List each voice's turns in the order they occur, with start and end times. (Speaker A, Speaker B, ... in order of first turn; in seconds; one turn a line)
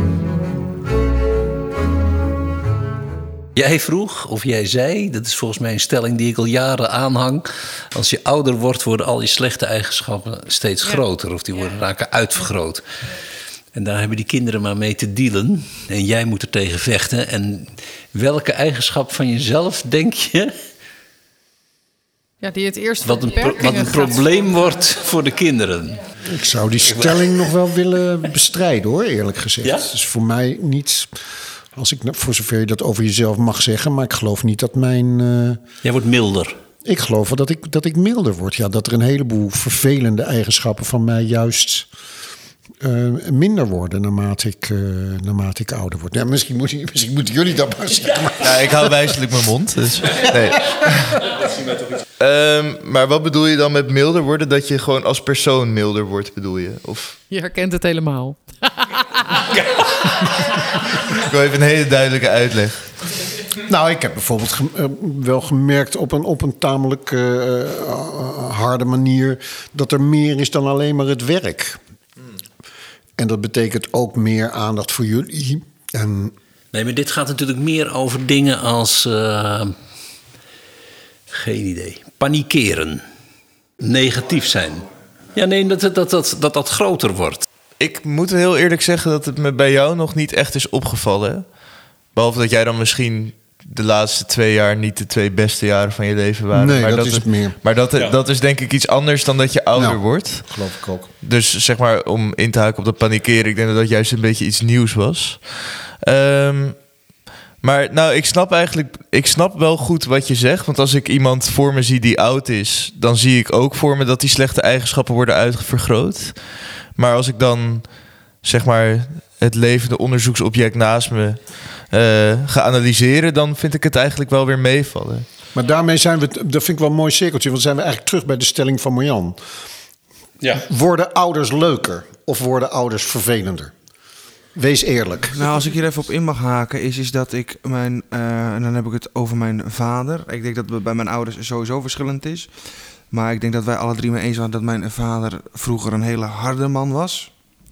Speaker A: 3.5-20.5
Speaker B: 22.4-24.3
Speaker A: 23.0-26.0
Speaker C: 26.2-35.6
Speaker A: 26.8-27.4
Speaker A: 35.8-36.6
Speaker C: 36.8-41.9
Speaker C: 42.8-49.1
Speaker D: 48.4-51.3
Speaker D: 52.2-57.2
Speaker B: 57.3-59.0
Speaker D: 61.0-63.0
Speaker C: 63.6-71.8
Speaker C: 73.2-76.3
Speaker A: 76.7-79.8
Speaker A: 81.3-83.0
Speaker A: 83.8-87.5
Speaker D: 87.8-100.6
Speaker C: 96.5-97.6
Speaker C: 99.7-101.1
Speaker D: 101.2-106.8
Speaker D: 107.6-125.2
Speaker C: 125.5-129.4
Speaker C: 130.6-133.7
Speaker C: 134.5-135.5
Speaker E: 135.3-147.3